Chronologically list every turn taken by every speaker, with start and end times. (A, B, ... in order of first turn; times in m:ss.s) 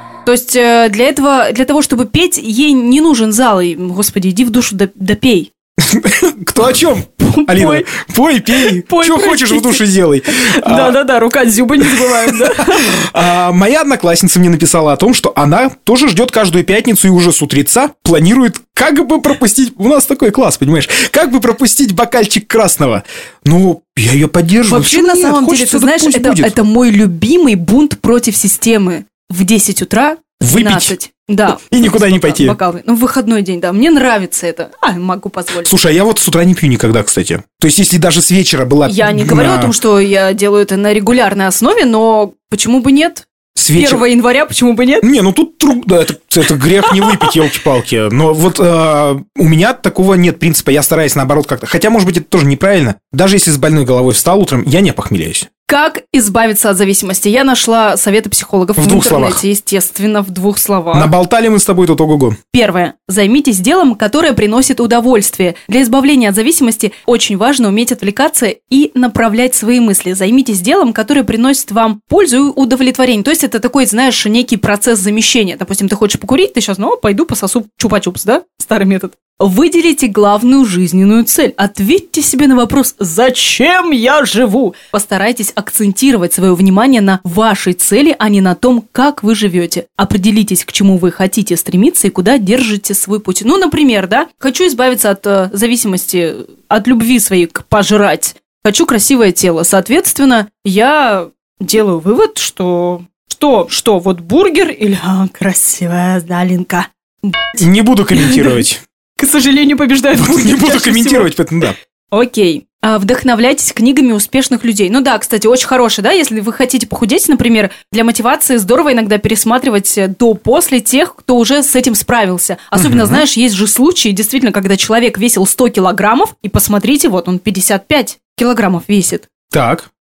0:00.2-0:05.5 A
0:05.8-0:11.0 B
0:07.2-0:07.9 A
0:08.6-0:13.0 A
0:11.9-0:26.6 B
0:24.7-0:35.7 A
0:30.4-0:30.9 B
0:31.5-0:32.6 B
0:35.6-0:39.7 B
0:38.9-0:45.0 A
0:43.6-0:44.1 B
0:45.0-0:55.5 B
0:55.7-1:01.1 A
0:58.8-0:59.4 B
1:00.9-1:02.4 B
1:02.5-1:47.6 A
1:47.5-1:48.8 B
1:48.1-1:48.6 A
1:49.2-1:51.3 A
1:50.1-1:51.8 B
1:52.1-2:09.3 A
2:02.7-2:03.2 B
2:09.5-2:09.9 B